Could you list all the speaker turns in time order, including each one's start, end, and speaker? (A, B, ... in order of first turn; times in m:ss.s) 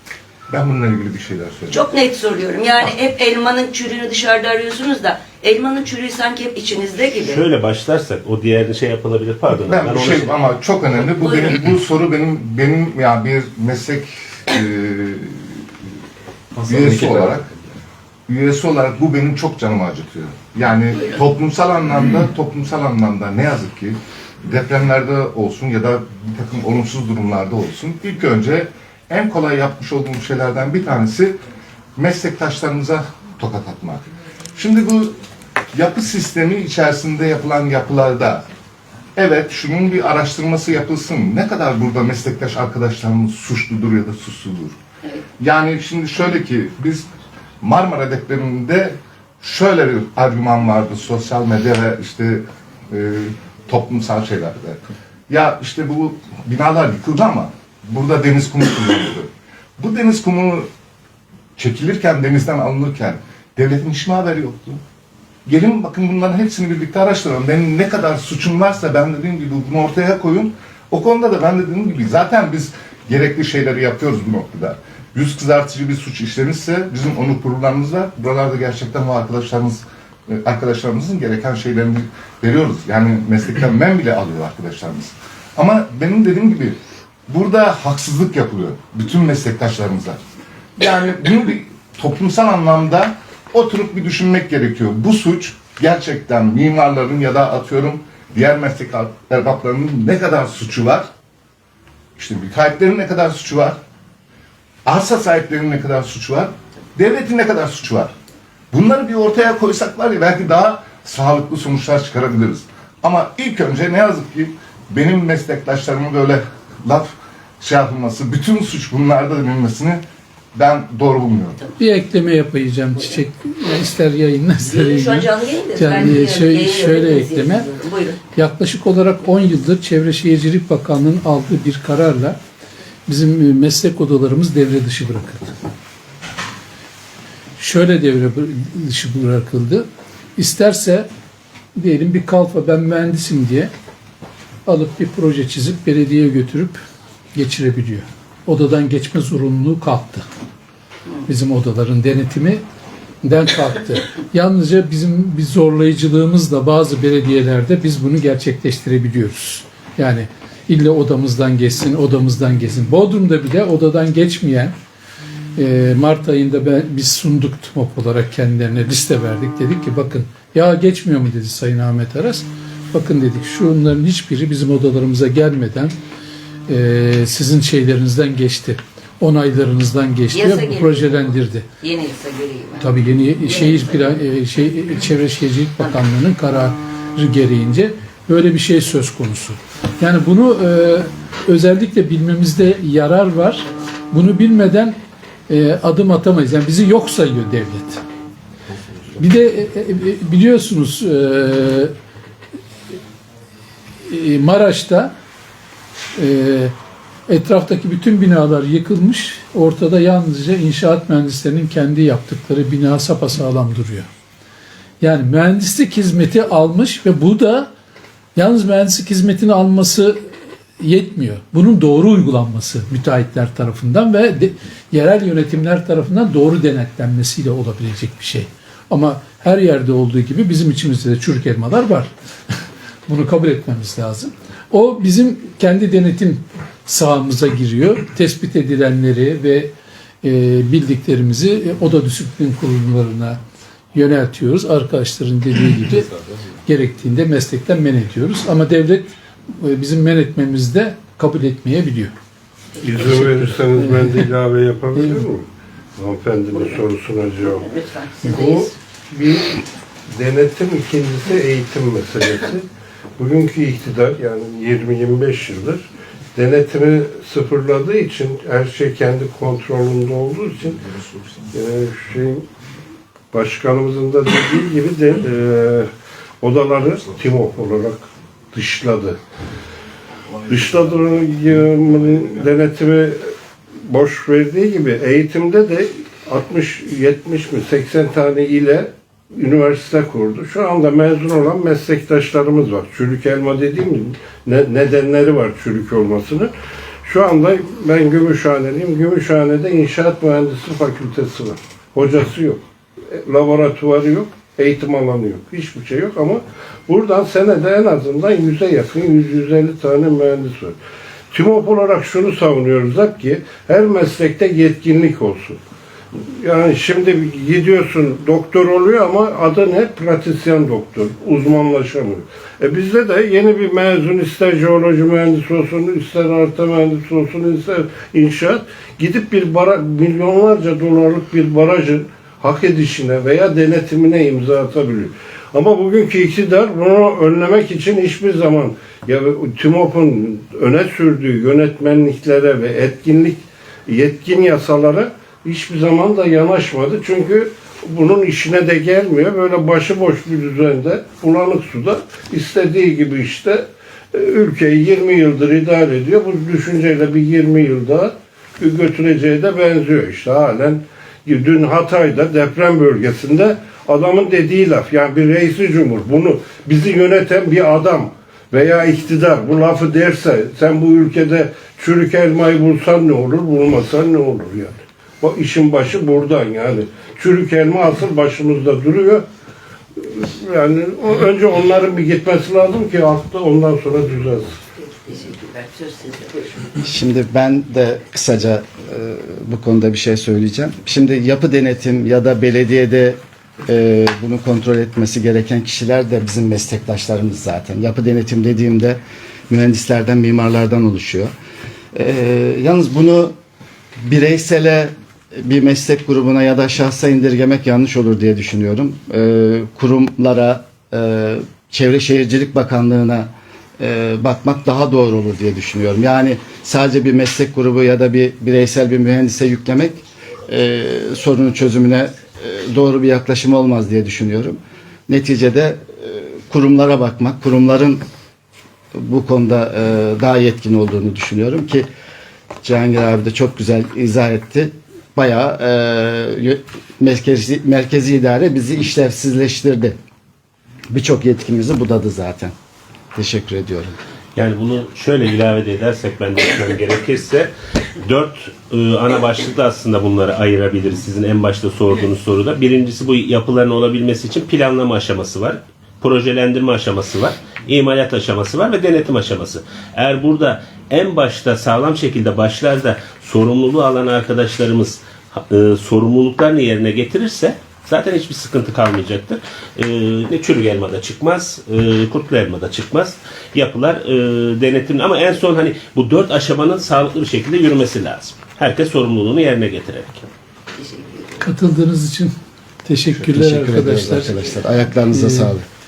0:00.5-0:01.8 A
0:01.7-0:07.4 B
0:07.2-0:10.4 C
0:09.6-0:15.5 A
0:11.2-0:11.6 B
0:16.6-0:17.5 A
0:18.3-0:31.4 A
0:32.0-0:35.2 A
0:35.7-0:38.4 A
0:39.2-0:44.8 A
0:45.4-0:47.1 A
0:47.6-1:00.7 A
1:01.6-1:04.8 A
1:05.4-1:30.2 A
1:30.8-1:41.1 A
1:42.2-1:43.8 A
1:44.8-1:48.1 A
1:48.7-2:00.0 A
2:00.5-2:01.6 A
2:01.8-2:07.7 D
2:04.6-2:08.2 B
2:08.3-2:12.4 D
2:13.1-2:15.5 D
2:17.6-2:21.1 D
2:21.7-2:23.7 D
2:24.6-2:26.8 D
2:27.3-2:30.2 D
2:31.3-2:32.6 D
2:33.2-2:44.7 D
2:45.6-2:56.0 D
2:56.7-3:01.7 D
3:00.3-3:04.2 B
3:02.8-3:18.0 D
3:19.2-3:21.9 D
3:24.0-3:25.1 D
3:26.1-3:26.7 D
3:27.3-3:34.1 D
3:35.0-3:37.7 D
3:38.4-3:52.1 D
3:53.1-3:59.7 D
4:00.2-4:03.4 D
4:03.9-4:12.1 D
4:12.8-4:15.4 E
4:13.0-4:14.3 D
4:15.0-4:15.2 D
4:16.0-4:17.7 E
4:17.4-4:18.7 B
4:18.2-4:22.6 E
4:23.2-4:30.9 E
4:31.5-4:32.4 E
4:33.3-4:35.9 E
4:36.4-4:39.2 E
4:40.4-4:43.3 E
4:43.8-4:56.5 E
4:57.0-5:10.8 E
5:11.3-5:15.6 E
5:16.2-6:19.2 E
6:20.0-6:24.6 E
6:24.8-6:26.6 B
6:26.8-6:39.0 F
6:39.5-6:41.3 F
6:41.9-6:43.3 F
6:44.0-7:08.0 F
7:08.9-7:11.9 F
7:12.6-7:20.0 F
7:20.9-7:22.5 F
7:23.1-7:23.9 F
7:24.3-7:27.5 C
7:28.0-8:00.3 C
8:00.8-8:01.5 B
8:01.4-8:04.4 D
8:03.1-8:05.6 F
8:05.1-8:05.5 D